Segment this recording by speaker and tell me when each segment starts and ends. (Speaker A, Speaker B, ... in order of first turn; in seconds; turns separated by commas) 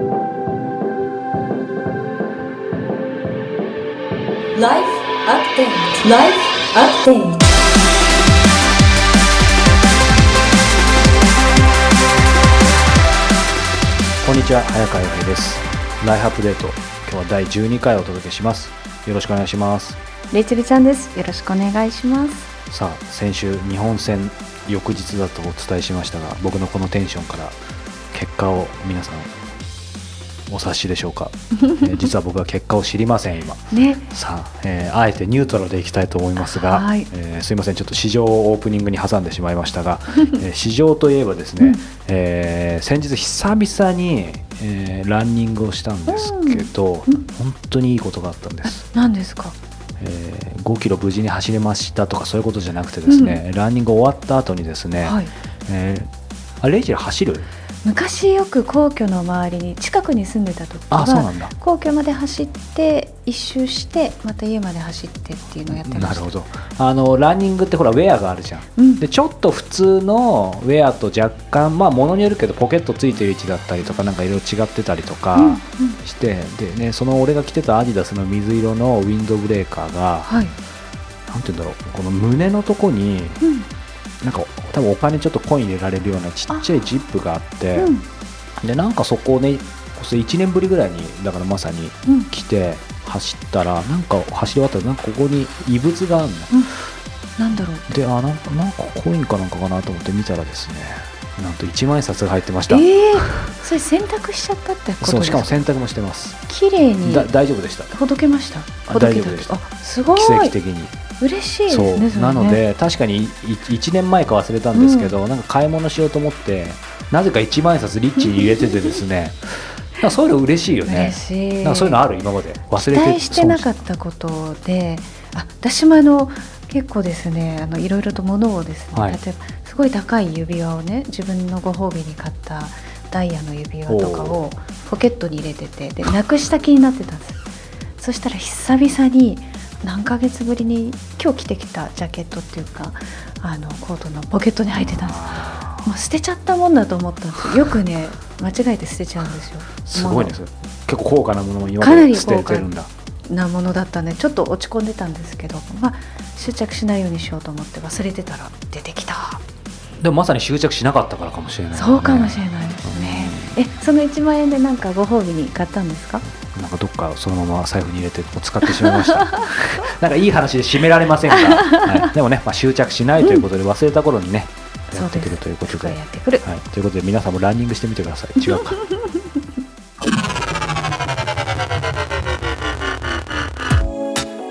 Speaker A: 4.6-7.4, Speaker B: 14.2-20.0, Speaker C: 20.3-22.5, Speaker B: 22.7-27.6, Speaker B: 28.1-29.3, Speaker B: 30.5-48.9, Speaker C: 33.7-34.0, Speaker C: 36.4-37.1, Speaker C: 46.1-47.2, Speaker C: 48.9-49.6, Speaker B: 50.0-56.1, Speaker C: 53.1-53.4, Speaker C: 55.0-55.3, Speaker B: 56.6-57.5, Speaker C: 57.8-66.3, Speaker B: 60.9-61.5, Speaker B: 65.7-80.3, Speaker C: 68.8-69.0, Speaker C: 75.4-76.0, Speaker C: 80.3-80.5, Speaker B: 81.3-83.4, Speaker B: 84.2-87.9, Speaker C: 87.8-88.0, Speaker B: 88.6-96.6, Speaker C: 97.4-97.8, Speaker B: 97.9-103.5, Speaker C: 102.7-105.6, Speaker B: 105.0-106.4, Speaker C: 106.5-107.3, Speaker B: 107.0-107.9, Speaker C: 107.9-110.5, Speaker B: 108.8-109.5, Speaker B: 110.1-110.9, Speaker C: 111.2-112.6, Speaker B: 111.7-123.7, Speaker C: 114.7-115.1, Speaker C: 120.9-122.0, Speaker C: 122.9-137.4, Speaker B: 128.9-129.2, Speaker B: 133.9-134.4, Speaker C: 138.0-150.3, Speaker B: 144.8-145.9, Speaker B: 149.9-152.9, Speaker C: 151.8-152.7, Speaker C: 153.3-159.4, Speaker B: 160.0-163.5, Speaker C: 161.8-166.2, Speaker B: 166.4-178.8, Speaker C: 171.5-172.0, Speaker C: 174.9-176.4, Speaker C: 178.5-179.1